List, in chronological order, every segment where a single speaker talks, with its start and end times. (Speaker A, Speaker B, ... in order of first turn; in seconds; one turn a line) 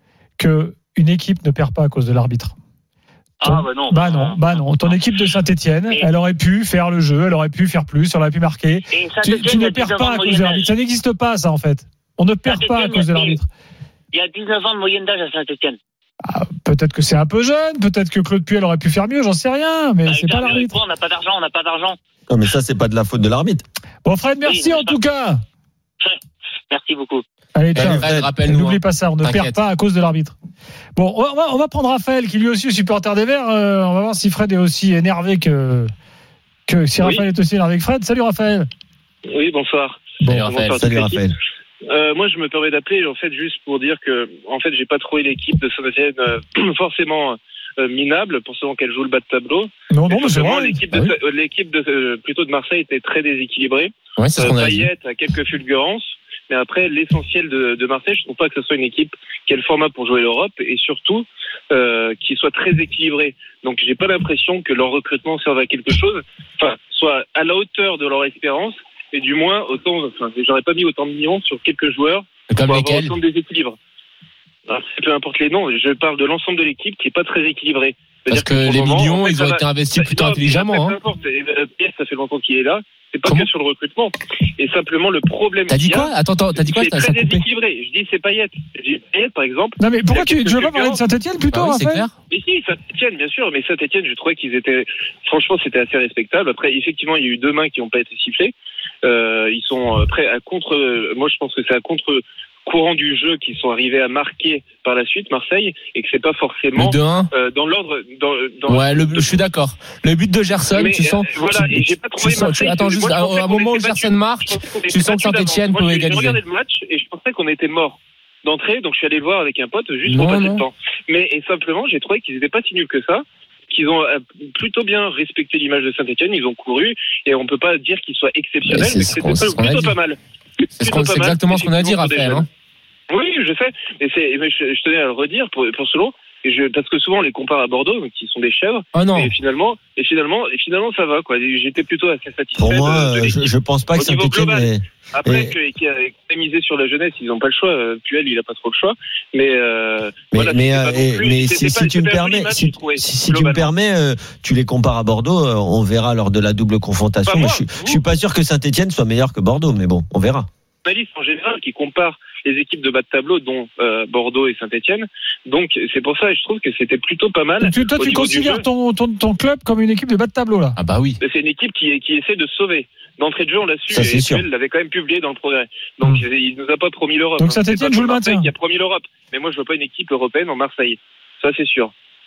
Speaker A: 0.4-2.5
Speaker B: 3.4-5.0
Speaker A: 3.4-13.5
Speaker B: 8.9-10.7
Speaker B: 12.4-13.4
Speaker B: 14.1-15.8
Speaker A: 16.2-20.7
Speaker B: 20.1-22.0
Speaker C: 22.3-23.6
Speaker A: 24.0-25.4
Speaker B: 24.4-24.9
Speaker B: 26.7-27.2
Speaker A: 27.5-30.3
Speaker D: 27.7-29.6
Speaker C: 27.8-28.3
Speaker A: 30.9-35.9
Speaker A: 36.7-38.7
Speaker E: 39.3-41.2
Speaker D: 40.2-40.9
Speaker C: 40.8-41.4
Speaker E: 41.9-73.8
Speaker A: 49.9-50.8
Speaker D: 54.2-54.9
Speaker D: 72.5-73.1
Speaker E: 74.7-91.0
Speaker D: 78.3-81.0
Speaker D: 85.7-87.4
Speaker A: 89.8-92.0
Speaker D: 91.5-92.1
Speaker E: 92.3-109.4
Speaker D: 106.8-107.3
Speaker D: 108.7-116.4
Speaker E: 110.7-130.2
Speaker D: 120.0-120.6
Speaker D: 128.6-129.9
Speaker E: 130.8-132.5
Speaker D: 130.8-132.5
Speaker E: 133.1-153.7
Speaker D: 138.9-139.3
Speaker C: 142.6-145.5
Speaker C: 150.3-160.5
Speaker E: 157.2-158.0
Speaker E: 160.8-168.6
Speaker A: 167.6-170.8
Speaker D: 170.8-171.2
Speaker E: 171.2-181.9
Speaker C: 173.9-174.4
Speaker A: 177.4-178.5